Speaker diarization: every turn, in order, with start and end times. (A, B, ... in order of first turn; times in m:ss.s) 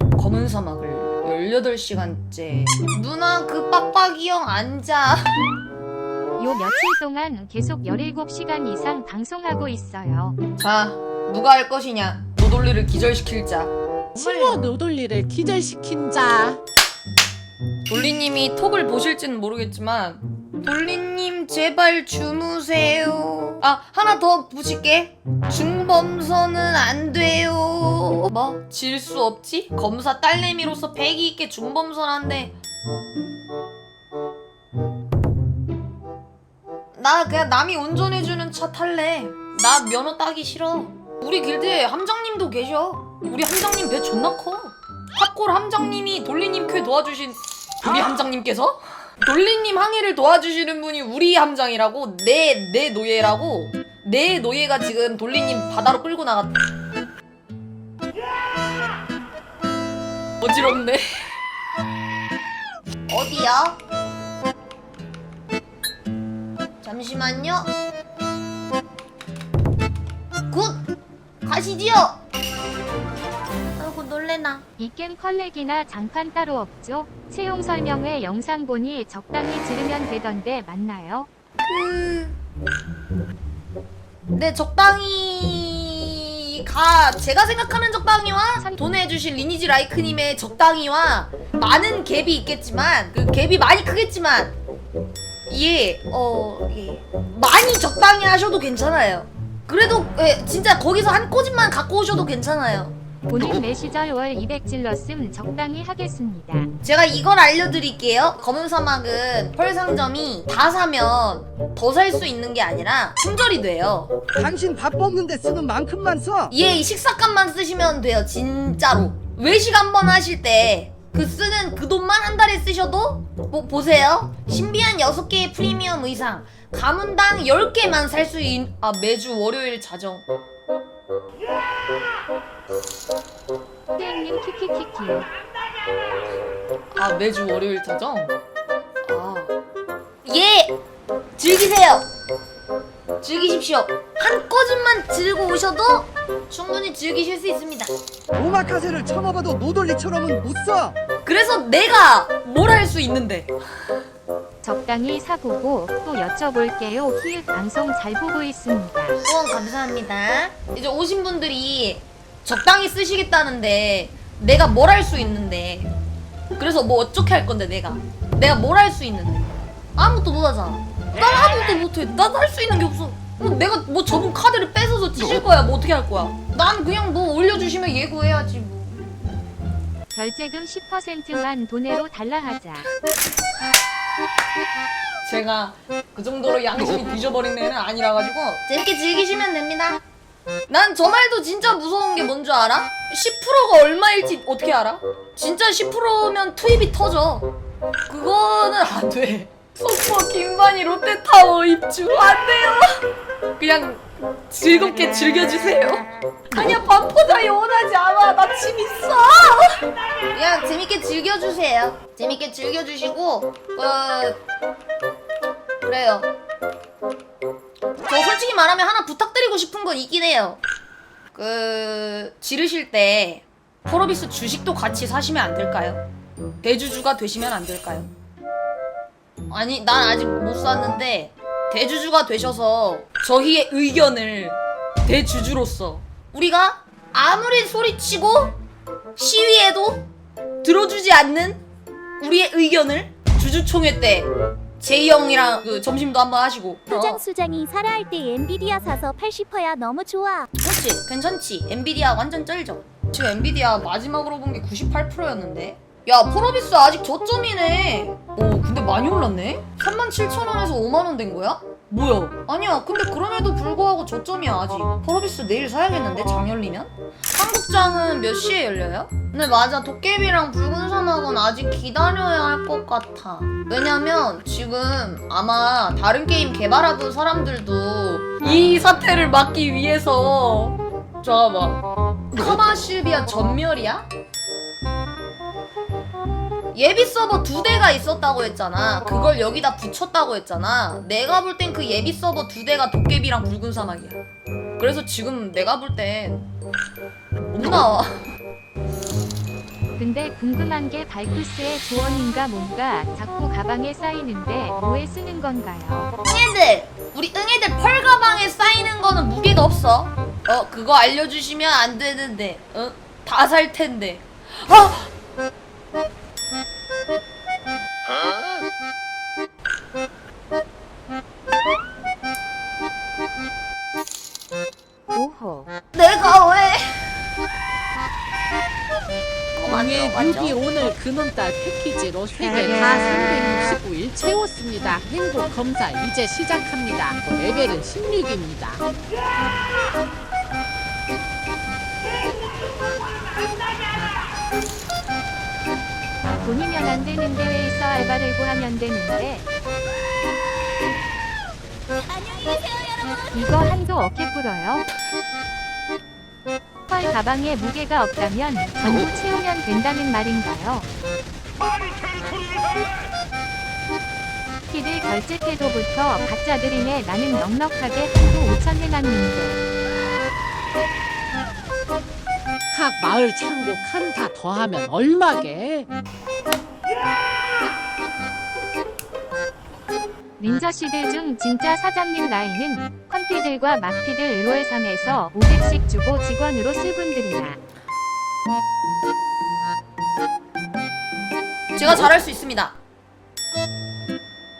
0:00.2-0:05.3 A
0:06.4-0:10.4 B
0:10.6-0:14.6 A
0:14.2-0:16.6 C
0:17.9-0:32.6 A
0:37.0-0:56.5 A
1:00.4-1:01.2 A
1:03.1-1:03.8 A
1:06.8-1:07.7 A
1:10.5-1:10.8 A
1:11.4-1:12.2 A
1:13.8-1:14.6 A
1:14.8-1:21.3 B
1:21.6-1:22.4 A
1:24.3-1:34.6 A
1:35.5-1:42.9 A
1:43.3-1:46.7 B
1:46.8-1:54.1 A
1:54.4-1:56.5 D
1:56.5-2:10.3 A
2:14.0-2:15.3 B
2:16.9-2:18.3 A
2:19.0-2:19.5 A
2:20.2-2:20.8 A
2:21.4-2:22.1 A
2:23.2-2:27.9 A
2:28.3-2:31.0 D
2:31.2-2:33.5 A
2:34.6-2:39.2 B
2:39.2-2:45.9 A
2:46.6-2:59.2 A
3:00.1-3:02.9 B
3:05.2-3:10.0 A
3:10.7-3:17.5 A
3:18.1-3:23.0 A
3:23.6-3:34.4 A
3:35.8-3:36.3 A
3:38.1-3:40.6 A
3:41.3-3:46.0 A
3:46.6-3:48.1 A
3:49.5-3:58.6 A
3:59.2-4:00.1 A
4:00.6-4:01.6 A
4:02.2-4:07.2 A
4:06.9-4:10.5 E
4:10.6-4:44.1 A
4:46.7-4:54.2 A
4:54.8-4:56.4 A
4:57.5-4:58.3 A
5:00.0-5:06.1 B
5:06.2-5:15.1 A
5:25.1-5:25.7 B
5:25.9-5:27.2 A
5:29.5-5:30.6 A
5:29.6-5:38.8 C
5:46.4-5:49.4 B
5:53.3-5:54.8 B
5:56.9-6:00.9 B
6:04.7-6:09.6 B
6:12.7-6:15.9 C
6:20.4-6:27.6 B
6:31.8-6:32.8 A